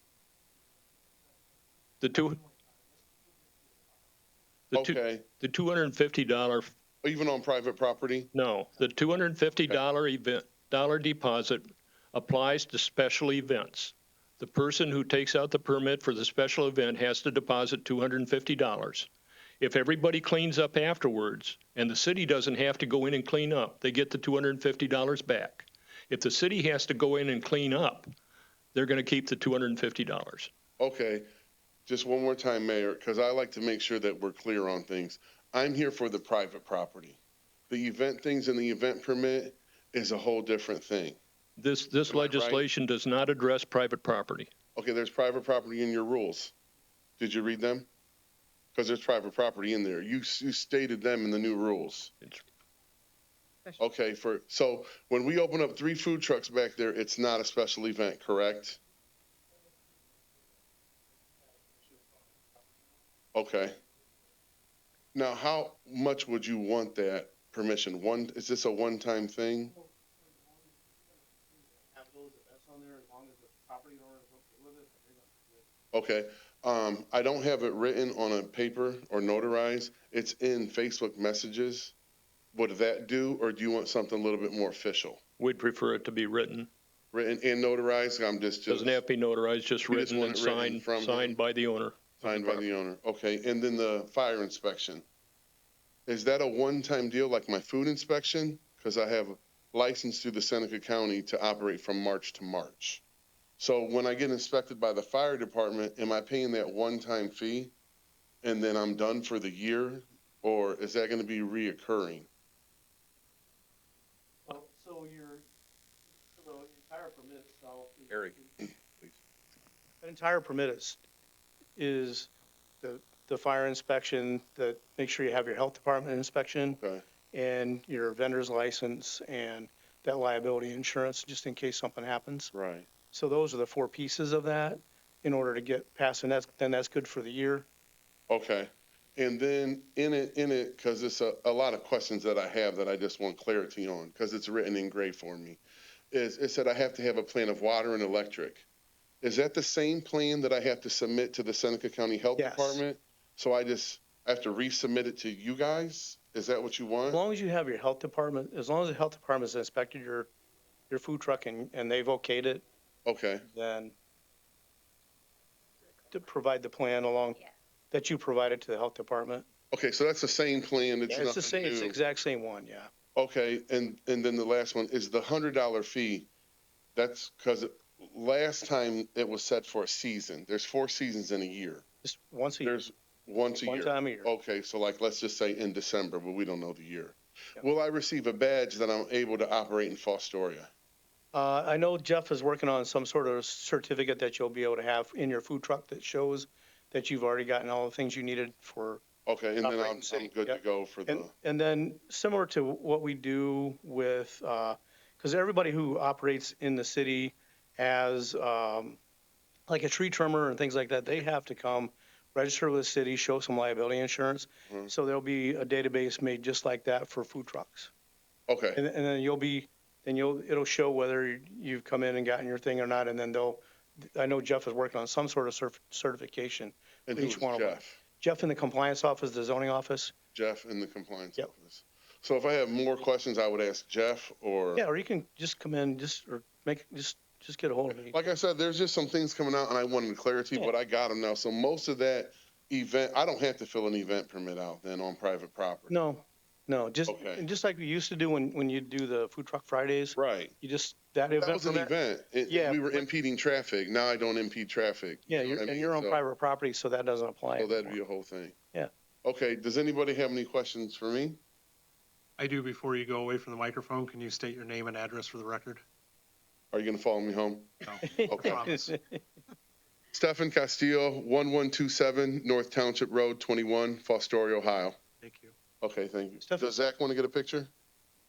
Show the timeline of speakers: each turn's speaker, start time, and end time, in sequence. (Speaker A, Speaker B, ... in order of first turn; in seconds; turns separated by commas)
Speaker A: 2.0-2.4, Speaker A: 4.7-6.7, Speaker B: 4.7-5.2, Speaker B: 7.0-8.3, Speaker A: 8.3-19.1, Speaker A: 19.6-28.1, Speaker A: 28.7-30.5, Speaker B: 30.8-31.3, Speaker B: 31.9-37.2, Speaker B: 37.7-41.2, Speaker A: 41.6-44.5, Speaker B: 42.1-42.6, Speaker B: 44.7-46.5, Speaker B: 47.2-47.9, Speaker B: 48.7-52.1, Speaker B: 53.8-58.8, Speaker C: 61.8-62.3, Speaker B: 63.3-63.8, Speaker B: 65.1-69.7, Speaker C: 69.7-75.7, Speaker B: 75.9-81.9, Speaker B: 82.5-85.2, Speaker A: 85.4-86.7, Speaker B: 87.1-89.0, Speaker A: 88.7-92.6, Speaker B: 89.9-91.3, Speaker B: 92.2-95.0, Speaker B: 96.1-103.0, Speaker B: 103.6-107.7, Speaker B: 108.4-112.3, Speaker C: 114.5-115.5, Speaker C: 116.3-118.8, Speaker C: 120.0-121.0, Speaker C: 121.8-122.3, Speaker C: 122.8-126.8, Speaker B: 126.7-127.0, Speaker C: 127.3-132.5, Speaker B: 132.5-132.9, Speaker C: 133.1-137.7, Speaker B: 138.3-148.7, Speaker B: 149.2-157.2, Speaker C: 152.4-152.8, Speaker C: 157.1-160.3, Speaker C: 160.9-162.7, Speaker B: 163.1-163.4, Speaker C: 163.4-163.9, Speaker C: 166.1-169.5, Speaker B: 169.7-172.0, Speaker C: 171.1-172.9, Speaker B: 173.1-176.3, Speaker B: 176.9-181.8, Speaker C: 182.0-182.8, Speaker B: 182.6-190.7, Speaker C: 183.6-184.3, Speaker C: 191.3-199.0, Speaker B: 199.2-201.3, Speaker C: 199.6-209.0, Speaker C: 209.7-217.9, Speaker B: 218.5-218.8, Speaker C: 218.7-230.1, Speaker B: 227.1-228.0, Speaker B: 230.3-234.8, Speaker C: 234.7-238.2, Speaker B: 237.9-245.9, Speaker C: 245.9-253.1, Speaker B: 247.1-247.4, Speaker B: 250.2-250.5, Speaker B: 251.4-256.2, Speaker C: 255.3-258.0, Speaker B: 257.6-258.5, Speaker B: 259.2-261.4, Speaker D: 262.4-265.8, Speaker B: 266.7-268.6, Speaker D: 267.8-268.9, Speaker C: 268.0-269.2, Speaker B: 270.1-275.0, Speaker D: 275.2-275.5, Speaker B: 275.8-277.7, Speaker C: 276.4-276.9